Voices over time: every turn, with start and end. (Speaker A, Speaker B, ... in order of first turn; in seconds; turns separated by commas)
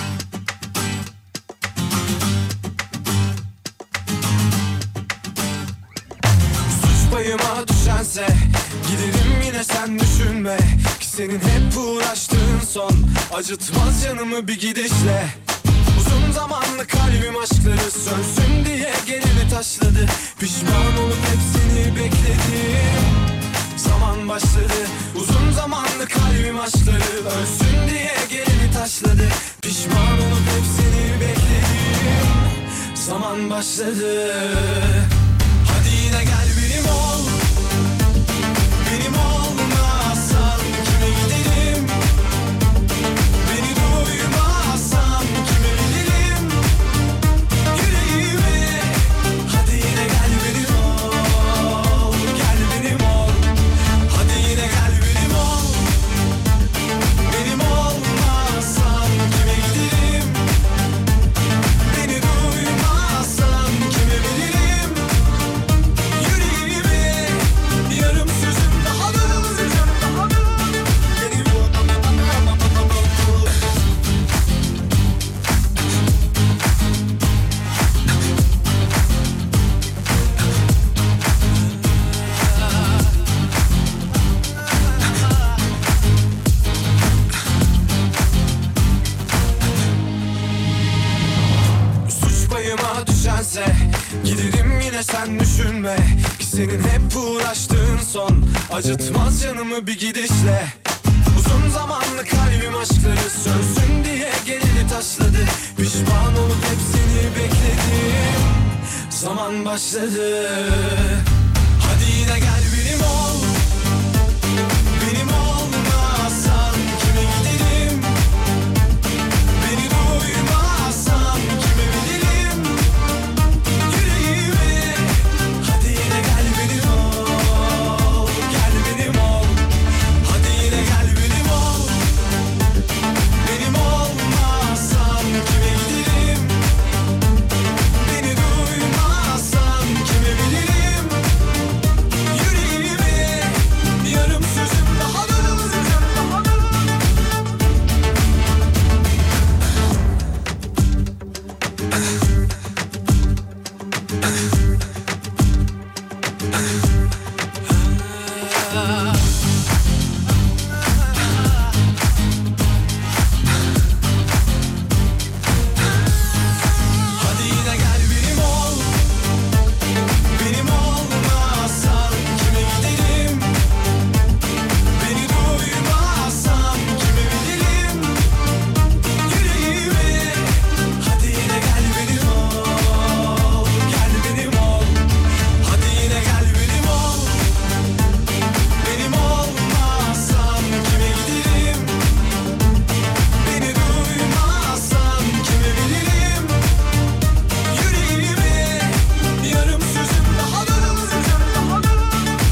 Speaker A: 6.7-15.3, Speaker A: 15.9-23.2, Speaker A: 23.8-35.1, Speaker A: 35.6-37.4, Speaker A: 38.8-42.0, Speaker A: 43.4-46.7, Speaker A: 47.7-53.5, Speaker A: 54.1-55.9, Speaker A: 57.3-60.5, Speaker A: 61.8-65.1, Speaker A: 66.1-73.6, Speaker A: 92.1-100.8, Speaker A: 101.3-111.2, Speaker A: 111.8-113.6, Speaker A: 115.0-118.2, Speaker A: 119.6-122.9, Speaker A: 123.8-129.7, Speaker A: 130.2-132.1, Speaker A: 133.4-136.6, Speaker A: 138.0-141.3, Speaker A: 142.3-146.8, Speaker A: 167.2-169.0, Speaker A: 170.3-173.6, Speaker A: 174.9-178.3, Speaker A: 179.2-185.1, Speaker A: 185.6-187.5, Speaker A: 188.8-192.0, Speaker A: 193.4-196.6, Speaker A: 197.7-202.2